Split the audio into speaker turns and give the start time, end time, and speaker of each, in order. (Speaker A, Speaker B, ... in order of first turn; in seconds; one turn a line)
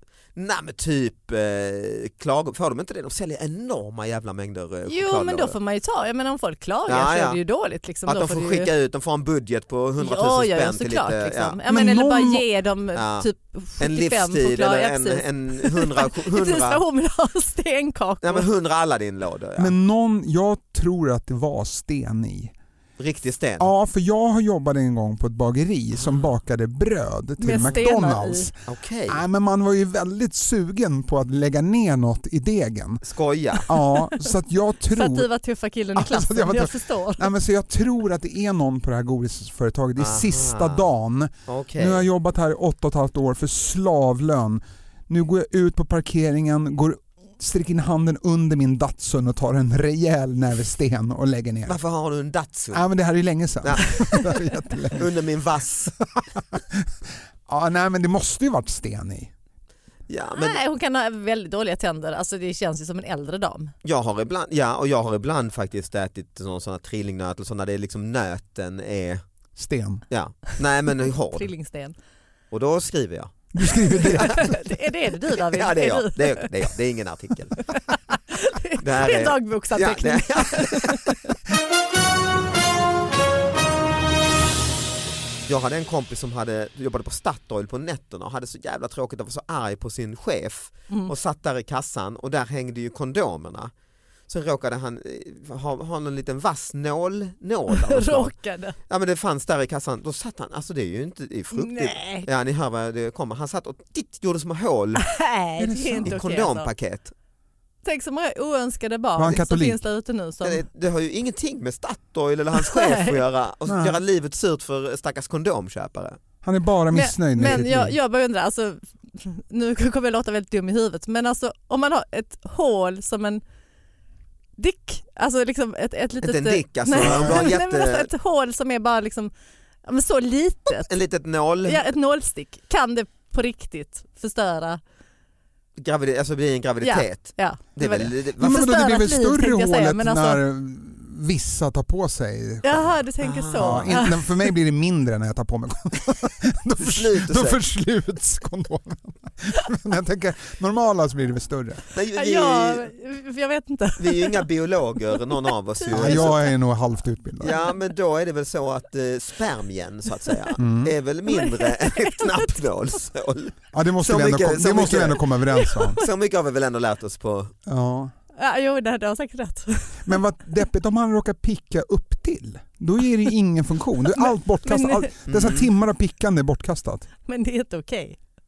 Speaker A: 0.4-5.6
Speaker B: 4.9-8.7
Speaker A: 6.9-7.4
Speaker A: 8.0-11.6
Speaker B: 10.0-18.5
Speaker C: 11.7-12.5
Speaker A: 12.9-16.8
Speaker A: 18.2-19.7
Speaker C: 19.6-22.5
Speaker A: 23.0-23.7
Speaker C: 23.6-33.0
Speaker A: 26.0-26.2
Speaker B: 27.4-28.5
Speaker A: 28.7-29.2
Speaker A: 33.0-33.6
Speaker C: 33.7-35.3
Speaker B: 33.8-34.3
Speaker B: 34.9-37.3
Speaker C: 36.0-51.8
Speaker A: 40.0-40.8
Speaker A: 41.5-42.1
Speaker A: 51.7-52.9
Speaker C: 52.7-55.1
Speaker A: 53.6-54.2
Speaker A: 55.0-56.0
Speaker C: 56.1-56.9
Speaker C: 57.5-59.3
Speaker A: 60.1-60.6
Speaker B: 60.4-63.7
Speaker A: 63.8-69.2
Speaker C: 69.6-70.0
Speaker A: 70.1-71.5
Speaker B: 71.3-72.0
Speaker A: 72.5-73.3
Speaker C: 73.5-74.6
Speaker B: 74.0-76.5
Speaker A: 75.4-77.6
Speaker B: 77.7-81.1
Speaker A: 78.8-81.2
Speaker A: 85.5-93.7
Speaker A: 94.3-105.2
Speaker B: 97.7-98.8
Speaker B: 101.5-102.3
Speaker B: 105.1-106.7
Speaker C: 105.6-106.2
Speaker A: 106.0-107.1
Speaker B: 107.8-110.6
Speaker C: 109.2-109.8
Speaker A: 110.4-116.2
Speaker B: 112.6-113.2
Speaker C: 113.7-114.0
Speaker C: 116.4-117.9
Speaker B: 116.9-123.4
Speaker B: 124.6-129.3
Speaker A: 126.2-128.1
Speaker C: 127.0-127.4
Speaker B: 129.9-130.9
Speaker A: 130.8-131.8
Speaker B: 131.7-134.8
Speaker A: 135.8-138.6
Speaker B: 136.8-140.4
Speaker C: 138.4-142.9
Speaker B: 142.6-144.5
Speaker A: 143.2-144.0
Speaker C: 143.6-151.8
Speaker A: 146.8-147.6
Speaker A: 151.9-152.9
Speaker B: 152.2-154.5
Speaker A: 154.0-156.5
Speaker C: 155.9-157.6
Speaker B: 156.0-156.4
Speaker A: 157.4-165.3
Speaker C: 160.6-160.9
Speaker B: 161.3-162.5
Speaker C: 163.7-166.0
Speaker B: 165.6-166.0
Speaker A: 166.0-167.5
Speaker C: 167.7-168.1
Speaker B: 168.4-170.2
Speaker C: 170.1-177.1
Speaker B: 174.1-175.1
Speaker A: 175.3-175.7
Speaker B: 177.3-178.2